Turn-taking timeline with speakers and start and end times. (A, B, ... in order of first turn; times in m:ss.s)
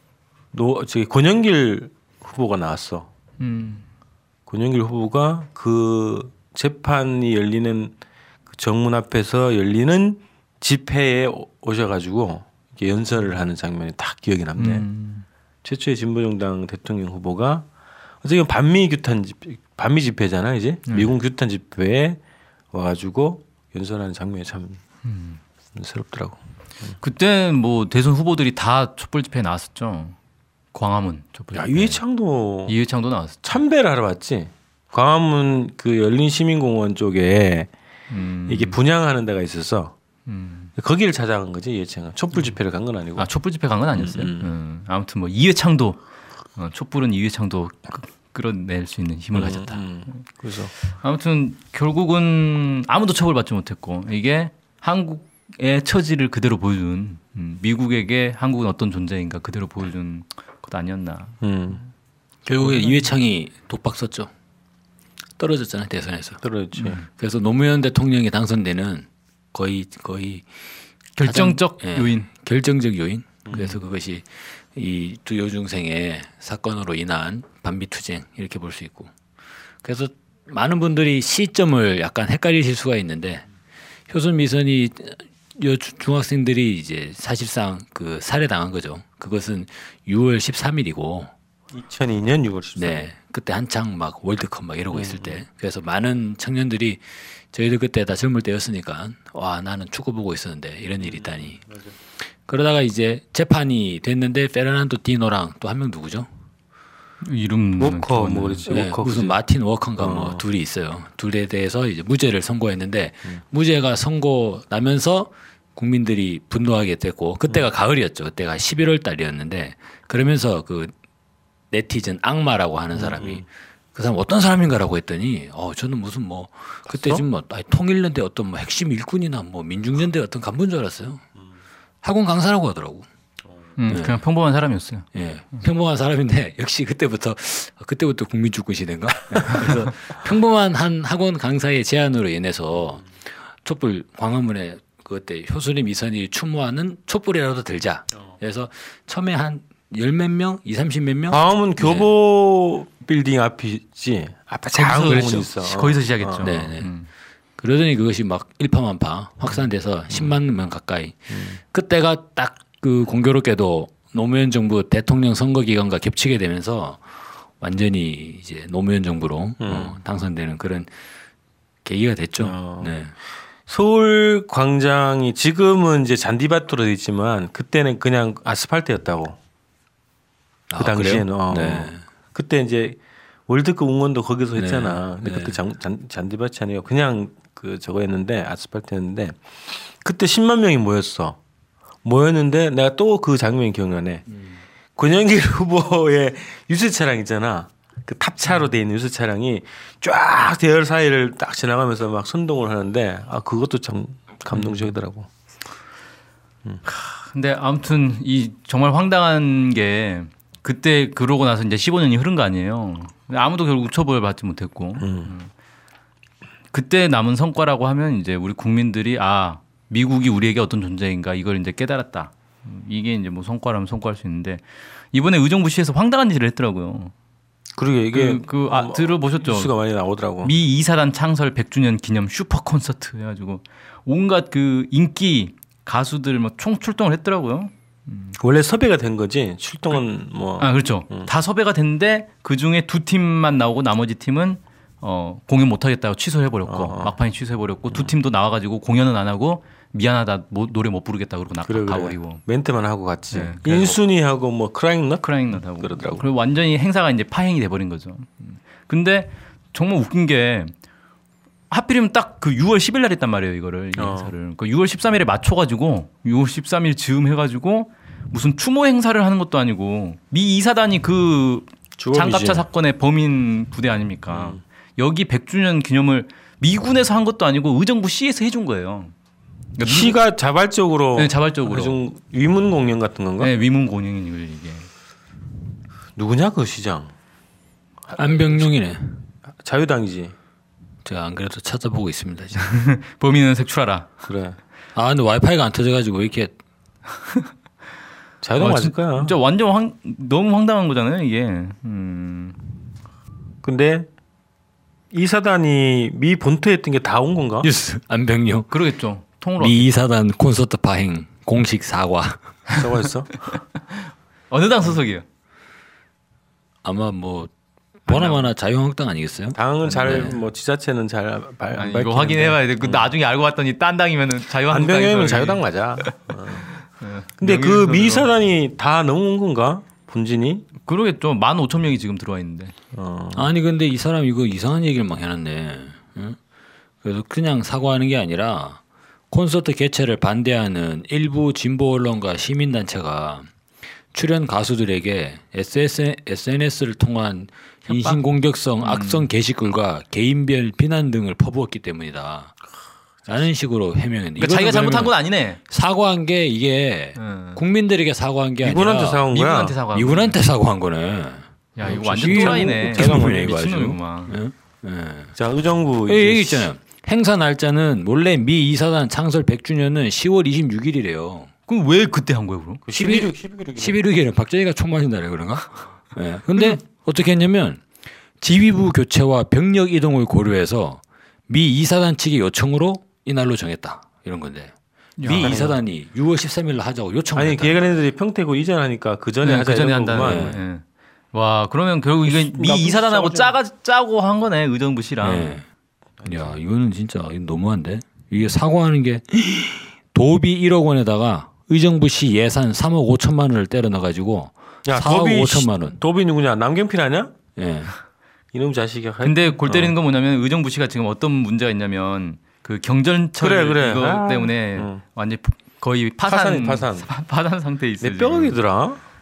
0:00.5-0:03.1 A
0:03.4-0:03.9 B
0:04.5-0:08.0 A
0:08.5-0:14.9 A
0:14.6-0:15.3 B
0:15.6-0:17.7 A
0:18.2-0:22.2 A
0:20.9-0:21.1 B
0:22.7-0:24.8 A
0:25.0-0:25.4 B
0:25.7-0:27.0 A
0:27.0-0:30.2 B
0:30.7-0:32.0 B
0:31.5-0:32.8 A
0:32.6-0:33.6 B
0:33.4-0:37.7 A
0:38.1-0:38.8 B
0:38.5-0:40.0 A
0:40.3-0:40.7 B
0:40.8-0:43.3 A
0:43.2-0:46.0 B
0:43.9-0:44.5 A
0:46.6-0:50.2 B
0:49.3-0:50.7 A
0:50.9-1:01.4 B
1:01.4-1:01.8 A
1:02.5-1:04.3 C
1:02.6-1:03.1 B
1:05.4-1:06.4 C
1:06.4-1:07.0 A
1:06.8-1:07.0 B
1:07.2-1:10.6 C
1:11.2-1:12.3 B
1:11.2-1:19.1 C
1:13.5-1:13.8 A
1:19.8-1:23.5 C
1:24.1-1:31.3 C
1:31.7-1:33.1 A
1:32.8-1:41.6 C
1:34.9-1:35.4 A
1:41.0-1:41.9 A
1:42.2-1:46.3 C
1:47.2-1:48.6 B
1:47.8-1:49.4 A
1:48.7-2:00.9 C
1:50.0-1:50.4 A
2:01.7-2:11.2 C
2:03.0-2:03.4 A
2:06.9-2:07.2 A
2:12.0-2:13.1 C
2:13.8-2:15.1 B
2:13.9-2:14.2 C
2:15.1-2:32.1 C
2:31.3-2:36.6 A
2:34.7-2:37.1 B
2:36.4-2:36.9 C
2:37.6-2:50.9 C
2:40.1-2:40.4 A
2:41.3-2:41.6 A
2:49.6-2:50.0 A
2:51.8-2:53.1 C
2:52.4-2:53.0 A
2:53.7-2:59.4 A
3:00.7-3:02.0 C
3:00.8-3:11.4 A
3:04.6-3:05.6 C
3:12.0-3:14.2 A
3:15.0-3:25.3 A
3:24.5-3:24.9 B
3:26.9-3:35.5 B
3:35.0-3:35.3 A
3:36.7-3:47.1 B
3:47.8-3:50.5 A
3:48.1-3:49.8 B
3:50.4-3:58.3 B
3:58.4-4:01.3 A
4:00.6-4:12.4 B
4:06.6-4:07.2 A
4:11.6-4:16.3 A
4:13.3-4:14.0 B
4:15.2-4:20.7 B
4:21.7-4:39.1 B
4:24.0-4:24.3 A
4:32.0-4:32.6 A
4:34.3-4:34.6 A
4:39.8-4:40.2 B
4:39.8-4:43.5 A
4:41.2-4:42.0 B
4:43.4-4:44.9 B
4:46.2-4:47.1 A
4:48.1-4:49.3 C
4:49.6-4:50.4 A
4:51.0-4:52.7 C
4:52.6-4:54.1 B
4:54.2-4:54.6 A
4:55.0-4:56.5 C
4:58.4-4:59.4 A
4:58.6-5:02.7 B
5:03.6-5:04.1 A
5:05.1-5:07.7 A
5:07.6-5:08.7 C
5:08.7-5:09.9 B
5:09.6-5:12.5 C
5:12.8-5:13.4 A
5:14.5-5:15.2 B
5:16.8-5:17.5 C
5:18.1-5:20.4 C
5:18.1-5:18.5 B
5:19.5-5:23.1 A
5:19.9-5:20.4 B
5:21.8-5:28.3 B
5:24.7-5:26.7 A
5:27.4-5:30.7 A
5:30.8-5:32.8 B
5:32.9-5:33.5 A
5:33.3-5:36.4 C
5:37.0-5:38.8 C
5:39.3-5:43.5 C
5:44.1-5:52.6 C
5:47.9-5:48.2 B
5:48.8-5:49.3 B
5:53.3-5:55.2 C
5:54.4-5:55.6 B
5:55.7-5:59.2 C
5:57.2-5:57.6 B
5:58.6-5:59.8 A
5:59.3-6:00.4 B
5:59.9-6:05.4 C
6:01.8-6:04.4 B
6:01.9-6:03.5 A
6:05.4-6:06.7 A
6:06.0-6:11.5 C
6:11.7-6:12.8 B
6:12.8-6:14.0 A
6:12.9-6:17.9 C
6:18.4-6:27.9 C
6:25.2-6:25.6 B
6:25.3-6:25.8 A
6:27.4-6:30.6 A
6:29.4-6:35.6 B
6:30.2-6:30.6 C
6:32.3-6:33.5 A
6:35.2-6:35.7 C
6:36.2-6:36.6 A
6:36.2-6:46.0 C
6:44.8-6:47.3 A
6:47.6-6:48.0 C
6:48.5-6:50.0 A
6:49.2-6:58.6 B
6:53.4-6:55.0 A
6:56.2-6:57.1 A
6:58.0-6:59.0 A